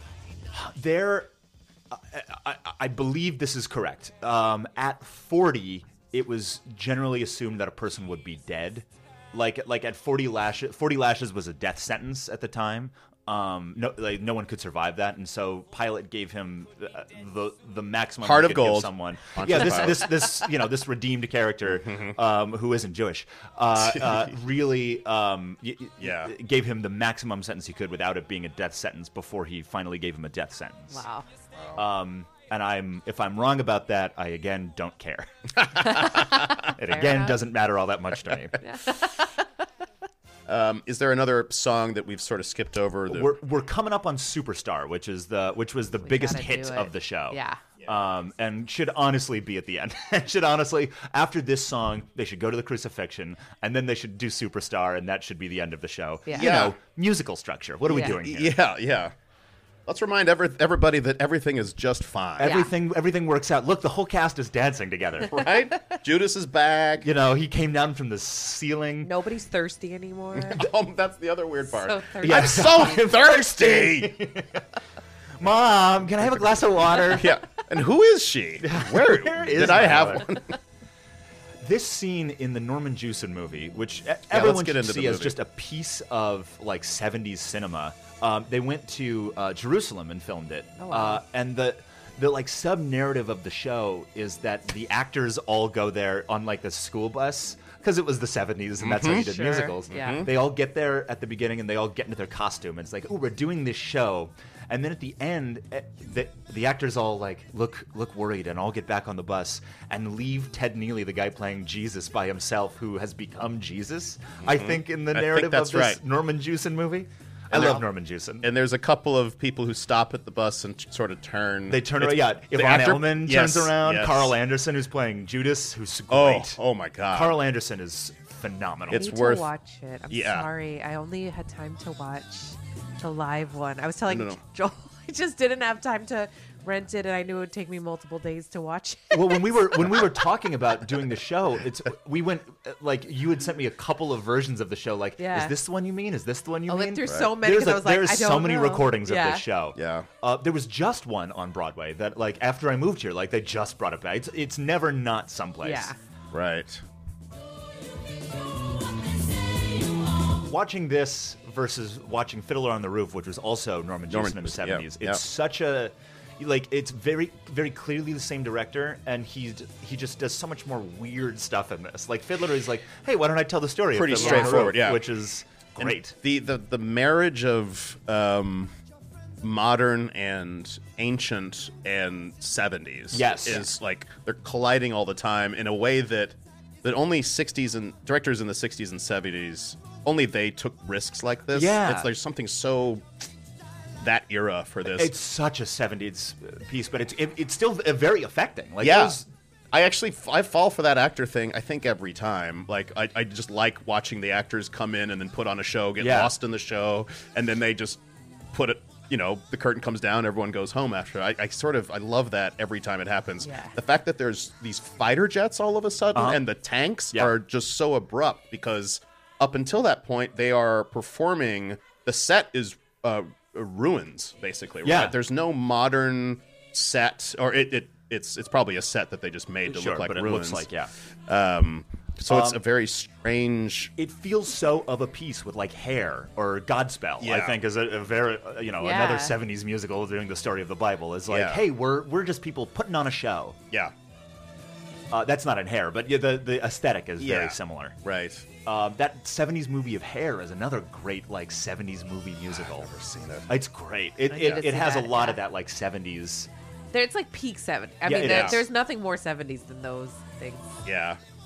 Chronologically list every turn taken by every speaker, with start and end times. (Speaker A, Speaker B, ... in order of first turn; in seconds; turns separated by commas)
Speaker A: 0.5-1.3, Speaker A: 1.9-31.1, Speaker B: 18.2-20.2, Speaker B: 21.6-22.2, Speaker B: 23.8-24.3, Speaker B: 26.0-26.3, Speaker C: 30.9-31.3, Speaker B: 31.5-31.9, Speaker A: 31.7-38.6, Speaker C: 35.9-37.4, Speaker C: 38.6-39.5, Speaker B: 40.5-43.4, Speaker A: 43.1-58.6, Speaker C: 46.0-47.6, Speaker B: 47.8-48.1, Speaker B: 56.3-56.8, Speaker B: 57.9-59.1, Speaker B: 59.9-62.5, Speaker A: 62.4-65.5, Speaker C: 62.4-62.7, Speaker B: 65.2-67.1, Speaker A: 67.0-69.1, Speaker C: 69.0-70.7, Speaker B: 70.4-74.2, Speaker C: 71.6-73.2, Speaker A: 72.2-74.6, Speaker A: 75.4-77.4, Speaker B: 77.0-80.6, Speaker A: 78.6-80.4, Speaker A: 81.6-118.5, Speaker B: 84.3-85.3, Speaker C: 90.8-91.2, Speaker B: 98.8-99.3, Speaker C: 99.1-100.2, Speaker B: 99.9-100.3, Speaker B: 114.4-116.0, Speaker B: 117.5-117.8, Speaker B: 118.4-124.3, Speaker A: 121.7-129.2, Speaker B: 126.1-127.4, Speaker B: 128.9-129.5, Speaker C: 128.9-140.2, Speaker B: 130.1-130.5, Speaker B: 134.1-134.4, Speaker A: 139.1-155.9, Speaker C: 145.2-145.6, Speaker C: 146.7-149.4, Speaker B: 149.7-150.1, Speaker C: 155.6-156.0, Speaker B: 156.3-156.8, Speaker A: 160.4-176.2, Speaker B: 164.1-165.2, Speaker B: 173.9-175.0, Speaker C: 174.1-174.6, Speaker B: 175.8-178.7, Speaker B: 179.4-193.1, Speaker A: 183.1-183.7, Speaker A: 191.5-192.1, Speaker B: 194.0-195.1, Speaker A: 194.8-199.3, Speaker B: 198.8-199.2, Speaker B: 199.7-208.0, Speaker A: 206.0-206.3, Speaker B: 208.5-230.7, Speaker C: 213.4-213.8, Speaker A: 216.1-216.4, Speaker A: 224.8-225.2, Speaker A: 229.7-230.9, Speaker B: 231.3-233.9, Speaker A: 232.3-232.6, Speaker A: 234.0-243.6, Speaker B: 237.2-237.6, Speaker C: 238.8-239.3, Speaker B: 241.3-241.6, Speaker A: 245.1-248.0, Speaker B: 247.2-248.5, Speaker A: 248.6-252.9, Speaker B: 252.5-253.5, Speaker A: 253.5-256.5, Speaker C: 254.3-255.4, Speaker C: 256.9-260.8, Speaker A: 258.0-258.6, Speaker B: 258.1-258.6, Speaker B: 260.8-261.2